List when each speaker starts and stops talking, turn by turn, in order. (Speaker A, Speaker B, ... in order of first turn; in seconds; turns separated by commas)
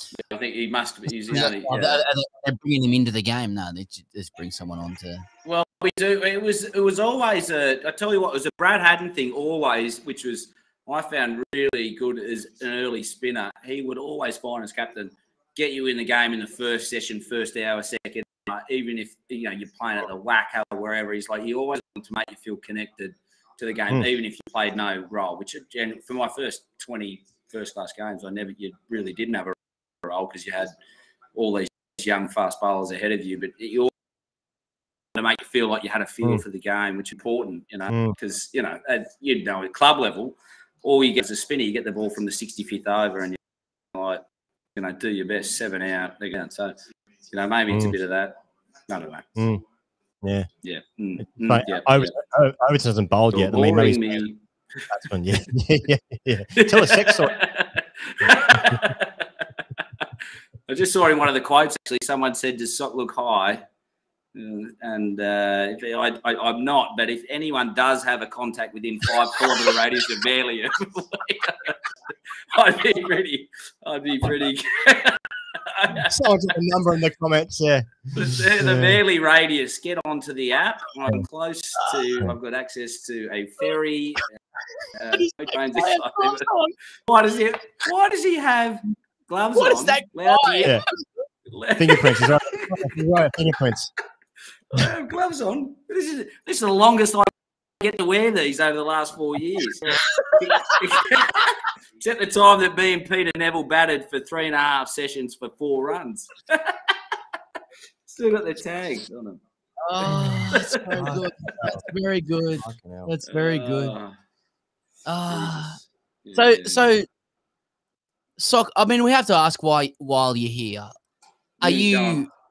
Speaker A: 0.2-2.0, Speaker B: 1.3-5.2, Speaker A: 5.4-30.7, Speaker A: 31.3-33.9, Speaker A: 35.1-43.4, Speaker A: 43.9-44.2, Speaker A: 44.8-49.4, Speaker C: 47.7-47.9, Speaker C: 49.4-49.6, Speaker C: 50.2-50.5, Speaker A: 50.6-52.1, Speaker C: 51.4-54.2, Speaker A: 53.3-54.4, Speaker C: 54.9-57.3, Speaker A: 56.5-59.3, Speaker A: 60.7-63.6, Speaker A: 64.3-71.8, Speaker A: 72.5-76.2, Speaker C: 76.1-77.9, Speaker A: 78.1-84.2, Speaker C: 78.6-79.0, Speaker A: 85.0-86.5, Speaker B: 85.2-86.7, Speaker A: 87.1-90.8, Speaker B: 89.6-90.9, Speaker A: 91.5-92.9, Speaker C: 91.7-93.9, Speaker A: 94.7-106.9, Speaker A: 108.1-109.4, Speaker B: 109.8-114.0, Speaker C: 110.1-110.4, Speaker A: 110.5-111.0, Speaker C: 110.9-111.8, Speaker C: 112.6-113.1, Speaker A: 113.3-114.1, Speaker B: 115.0-115.8, Speaker A: 115.3-115.6, Speaker A: 116.2-117.0, Speaker B: 116.3-117.1, Speaker B: 118.4-120.9, Speaker B: 121.6-122.3, Speaker A: 121.6-122.3